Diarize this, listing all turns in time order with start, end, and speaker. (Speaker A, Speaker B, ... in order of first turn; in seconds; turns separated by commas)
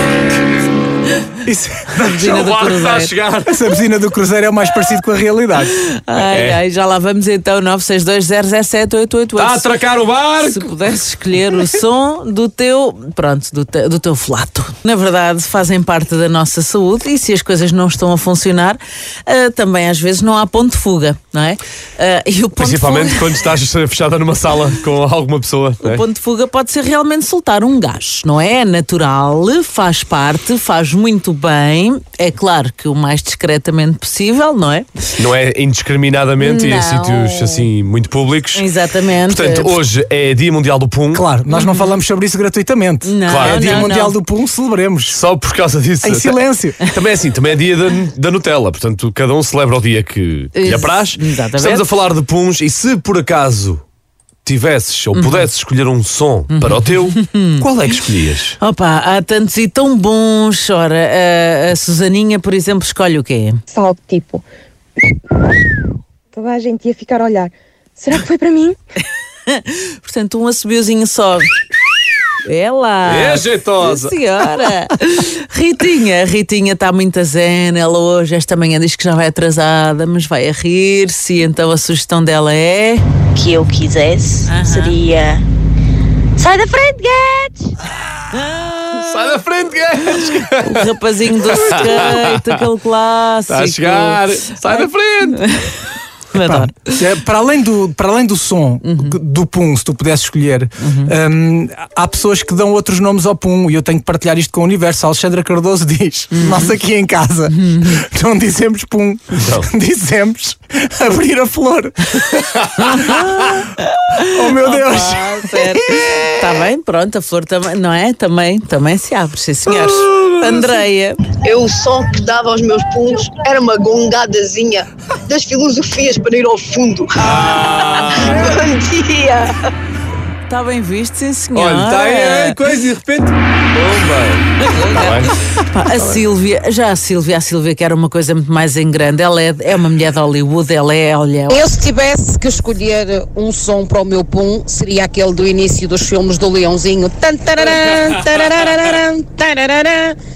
Speaker A: 1.4-2.3, Speaker B: 2.1-3.5, Speaker C: 2.1-3.1, Speaker A: 3.5-5.7, Speaker C: 5.8-9.7, Speaker B: 6.3-6.6, Speaker B: 9.4-10.7, Speaker C: 10.4-23.3, Speaker B: 22.6-26.0, Speaker C: 25.8-34.9, Speaker B: 35.2-38.7, Speaker C: 36.4-37.7, Speaker C: 38.5-39.8, Speaker B: 39.3-41.2, Speaker A: 41.1-45.2, Speaker C: 41.5-42.0, Speaker C: 43.0-44.1, Speaker B: 43.3-43.9, Speaker B: 45.1-53.8, Speaker A: 46.0-46.8, Speaker C: 50.6-51.9, Speaker B: 54.5-58.6, Speaker C: 55.1-55.5, Speaker C: 56.5-57.6, Speaker C: 58.6-63.6, Speaker D: 63.7-64.4, Speaker D: 66.3-68.8, Speaker C: 69.5-71.5, Speaker C: 72.4-83.0, Speaker B: 73.0-74.2, Speaker E: 83.3-85.4, Speaker C: 84.5-85.0, Speaker E: 86.4-87.6, Speaker C: 88.3-89.2, Speaker B: 89.0-90.8, Speaker C: 90.6-94.8, Speaker B: 91.5-92.1, Speaker B: 93.5-95.5, Speaker C: 95.4-95.7, Speaker C: 96.3-96.9, Speaker A: 96.4-112.0, Speaker C: 98.8-99.2, Speaker C: 100.8-101.1, Speaker C: 106.3-106.7, Speaker B: 109.4-109.7, Speaker C: 112.8-121.2, Speaker A: 112.9-113.5, Speaker A: 114.2-115.8, Speaker B: 120.0-120.7, Speaker F: 121.4-127.5, Speaker B: 127.2-128.5, Speaker C: 128.0-128.5, Speaker C: 129.0-129.3, Speaker C: 130.5-132.6, Speaker B: 131.6-135.3, Speaker C: 134.7-141.6, Speaker G: 141.5-150.2